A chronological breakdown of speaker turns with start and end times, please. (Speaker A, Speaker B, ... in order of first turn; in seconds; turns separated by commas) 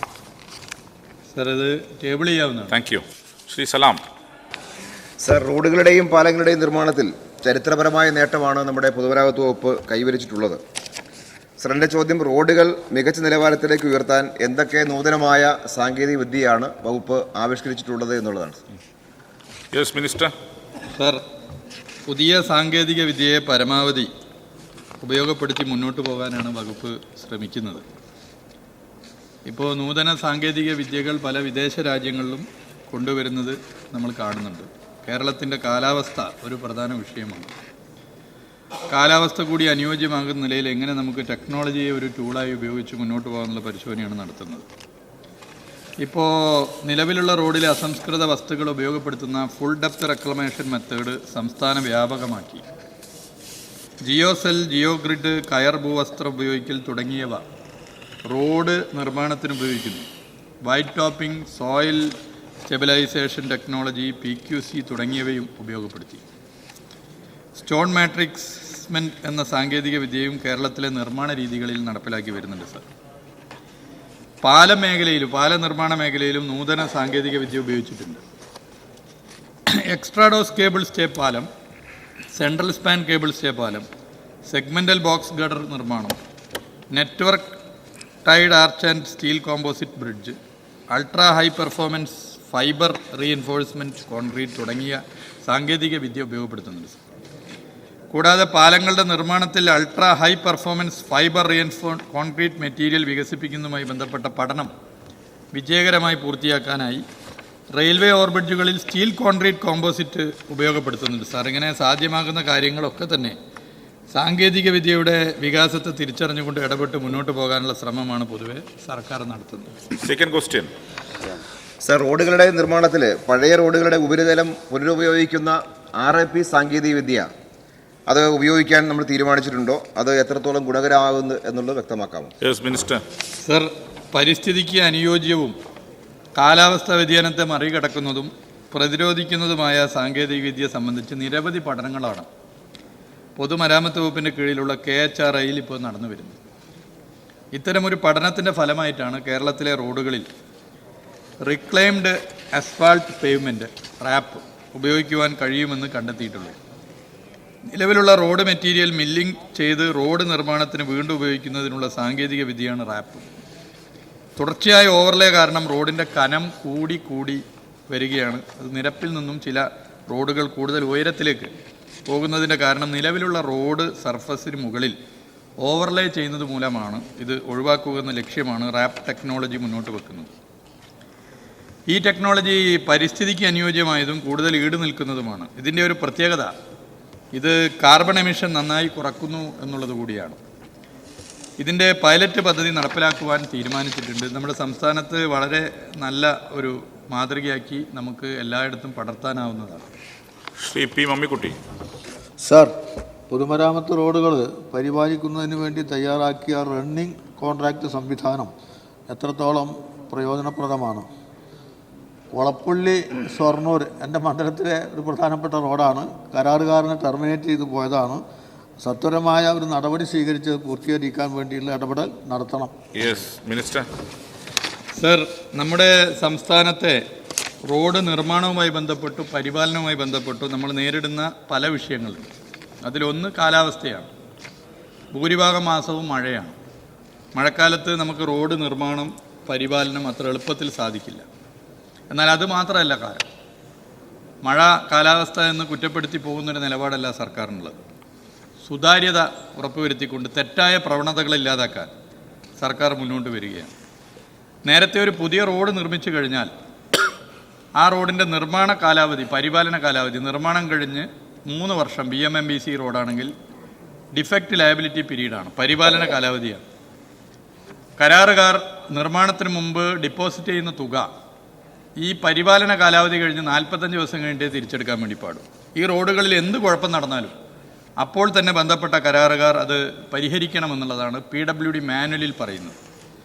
Speaker A: 1.3-2.7, Speaker B: 2.7-4.0, Speaker C: 5.2-10.6, Speaker C: 11.6-18.6, Speaker B: 19.7-20.3, Speaker A: 20.9-21.2, Speaker A: 22.1-24.1, Speaker A: 25.0-27.8, Speaker A: 29.4-37.5, Speaker A: 38.9-44.6, Speaker A: 46.0-52.6, Speaker A: 54.0-57.4, Speaker A: 58.3-60.1, Speaker A: 60.6-62.1, Speaker A: 62.6-66.2, Speaker A: 67.5-72.8, Speaker A: 74.4-78.2, Speaker A: 79.7-81.5, Speaker A: 82.3-83.8, Speaker A: 84.5-86.2, Speaker A: 86.9-87.5, Speaker A: 88.2-90.4, Speaker A: 90.9-97.0, Speaker A: 98.1-104.7, Speaker A: 105.5-107.0, Speaker A: 107.7-113.4, Speaker A: 114.1-119.7, Speaker B: 120.0-120.7, Speaker C: 121.8-127.3, Speaker C: 128.1-132.3, Speaker B: 132.4-133.0, Speaker A: 133.4-135.5, Speaker A: 136.3-142.3, Speaker A: 143.4-146.4, Speaker A: 147.5-150.3, Speaker A: 151.4-156.6, Speaker A: 157.7-163.3, Speaker A: 164.4-171.5, Speaker A: 172.1-174.9, Speaker A: 175.6-180.3, Speaker A: 181.9-186.5, Speaker A: 187.3-190.4, Speaker A: 191.6-199.9, Speaker B: 200.6-201.6, Speaker D: 202.4-202.7, Speaker D: 203.3-208.5, Speaker D: 209.1-211.1, Speaker D: 212.3-218.2, Speaker D: 218.8-222.7, Speaker B: 222.9-223.9, Speaker A: 224.9-227.0, Speaker A: 227.7-232.3, Speaker A: 232.8-234.1, Speaker A: 235.1-236.6, Speaker A: 237.3-241.3, Speaker A: 242.1-243.2, Speaker A: 244.4-247.8, Speaker A: 248.6-251.9, Speaker A: 252.6-253.7, Speaker A: 254.6-256.5, Speaker A: 257.8-263.3, Speaker A: 264.1-266.6, Speaker A: 268.0-271.1, Speaker A: 272.0-277.3, Speaker A: 278.0-282.8